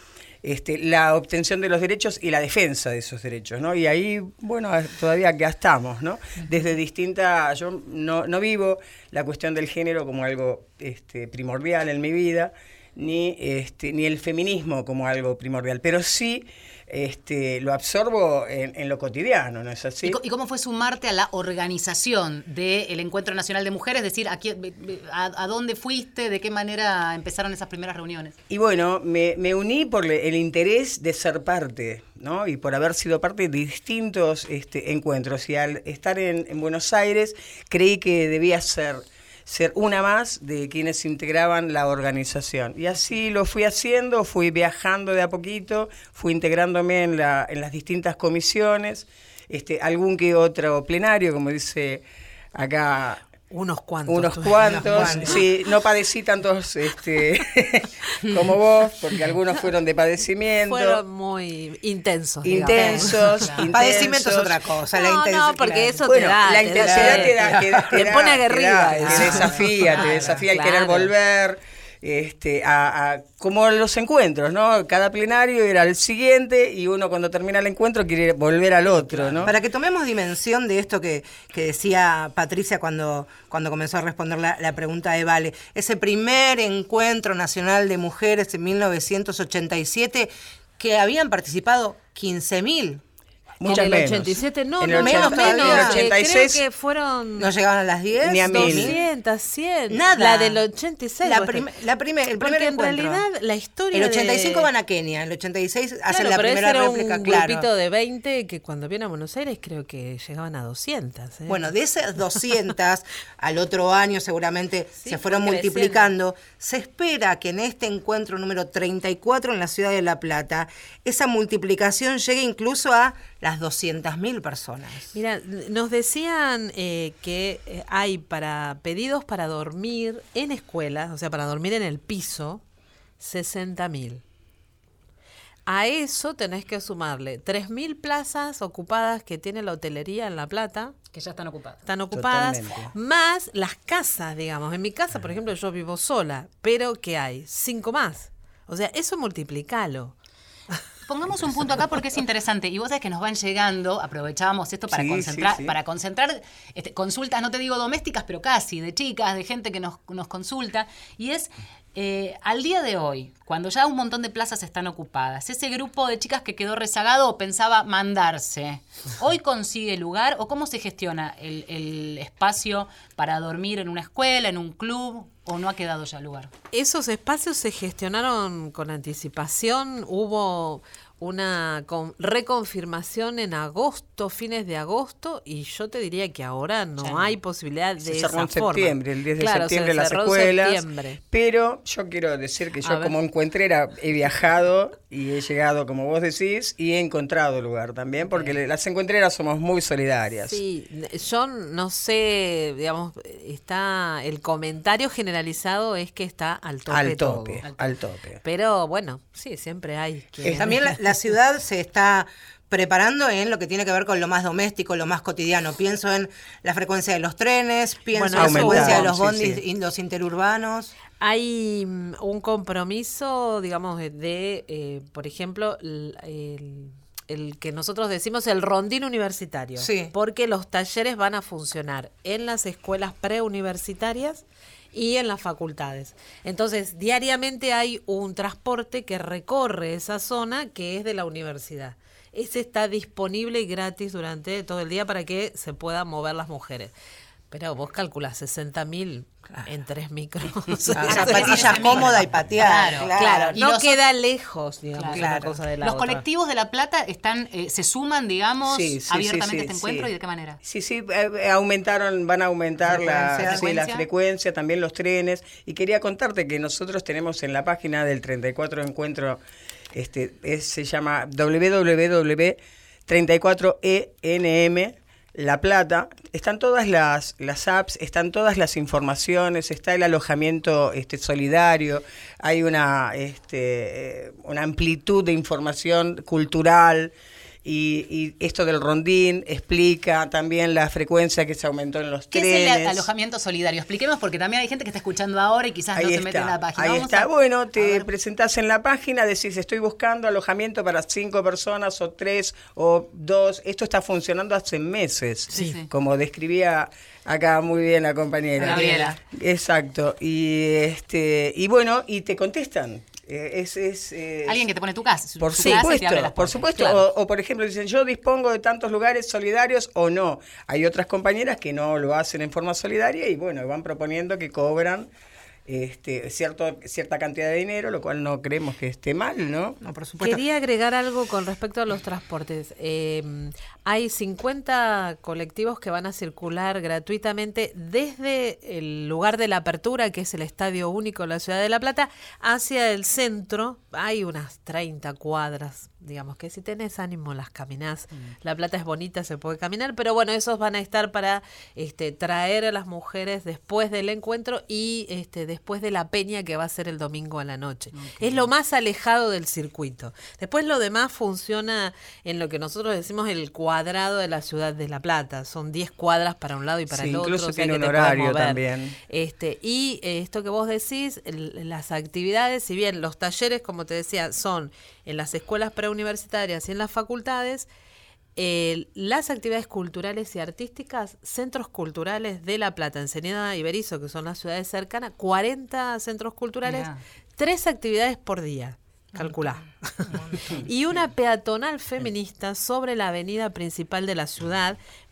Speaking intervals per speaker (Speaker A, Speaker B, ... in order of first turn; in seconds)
Speaker A: 0.4-20.2, 28.5-53.2, 54.1-61.0, 62.4-64.6, 66.1-79.5, 93.6-96.6, 98.2-99.0, 142.1-142.9, 154.9-155.8, 188.0-200.6, 206.9-208.4, 218.3-219.6, 258.7-260.1, 260.6-269.4, 269.9-287.1, 287.6-293.1, 295.9-314.6, 315.4-325.1, 325.7-329.8, 366.9-369.0
Speaker B: 20.0-28.4, 63.4-63.7, 70.0-70.3, 141.1-141.8, 151.1-176.5, 187.0-187.3, 207.6-207.9, 250.9-254.0, 255.0-255.2, 255.8-260.6, 263.4-264.0, 292.3-298.1, 305.5-305.9, 308.6-309.2, 314.4-317.1, 357.9-358.5, 386.6-387.0
Speaker C: 53.5-55.4, 60.6-63.5, 64.9-67.4, 67.9-71.1, 79.1-79.4, 93.7-97.5, 98.5-101.7, 102.4-104.7, 106.1-111.7, 115.0-116.1, 125.1-132.6, 133.2-134.2, 135.7-140.9, 141.9-150.2, 176.7-191.2, 192.8-193.2, 200.4-207.7, 208.4-211.0, 218.1-219.1, 221.2-246.9, 247.5-252.1, 253.2-256.2, 330.2-377.7, 378.4-394.8
Speaker D: 54.6-55.4, 62.7-63.1, 63.7-66.1, 66.8-67.9, 69.1-69.6, 79.5-93.0, 95.0-96.0, 97.4-99.0, 99.9-100.6, 101.2-103.2, 103.9-107.7, 111.5-125.2, 210.4-220.9, 229.8-230.1, 250.9-253.6, 255.1-255.5, 262.8-264.0, 308.7-309.1, 329.8-330.4, 390.1-390.7